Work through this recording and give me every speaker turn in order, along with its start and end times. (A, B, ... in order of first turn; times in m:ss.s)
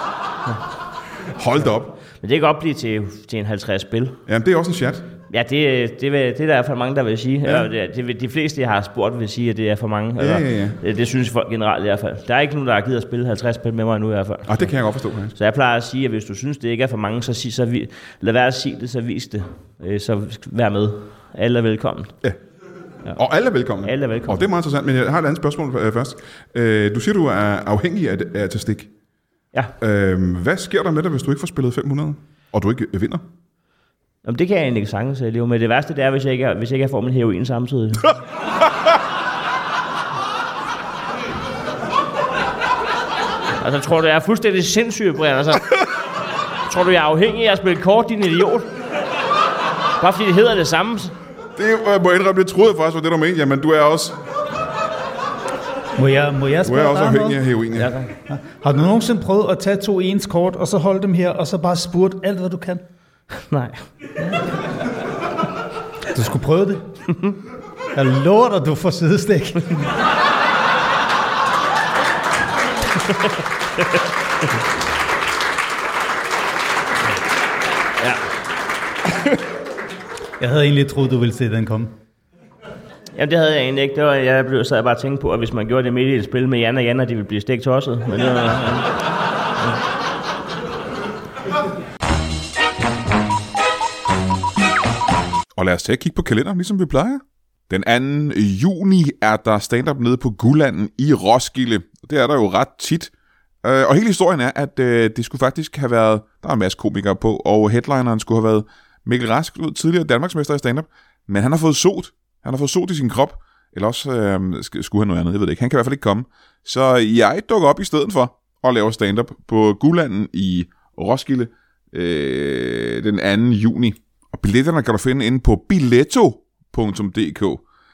0:01.3-0:02.0 A
0:02.2-0:04.2 B
0:04.3-0:05.0 A
0:05.3-0:14.7 B
0:10.2-0:10.8 A
0:14.5-0:15.3 A
0:15.3-0:22.1 B
0:23.1-0:28.9 A
0:23.8-0:24.4 B
0:29.8-0:33.2 A
0:34.2-0:38.2 B
0:43.6-0:45.8 B
0:46.7-0:48.7 B
0:50.0-0:51.1 B
0:51.6-0:54.2 A
0:56.0-0:57.4 C
0:56.6-0:58.0 A
0:57.7-0:58.1 B
0:58.3-1:02.8 C
1:03.4-1:03.9 B
1:06.1-1:06.9 C
1:07.9-1:09.9 C
1:20.4-1:21.9 C
1:23.2-1:28.9 B
1:35.6-1:43.1 D
1:43.6-2:07.6 D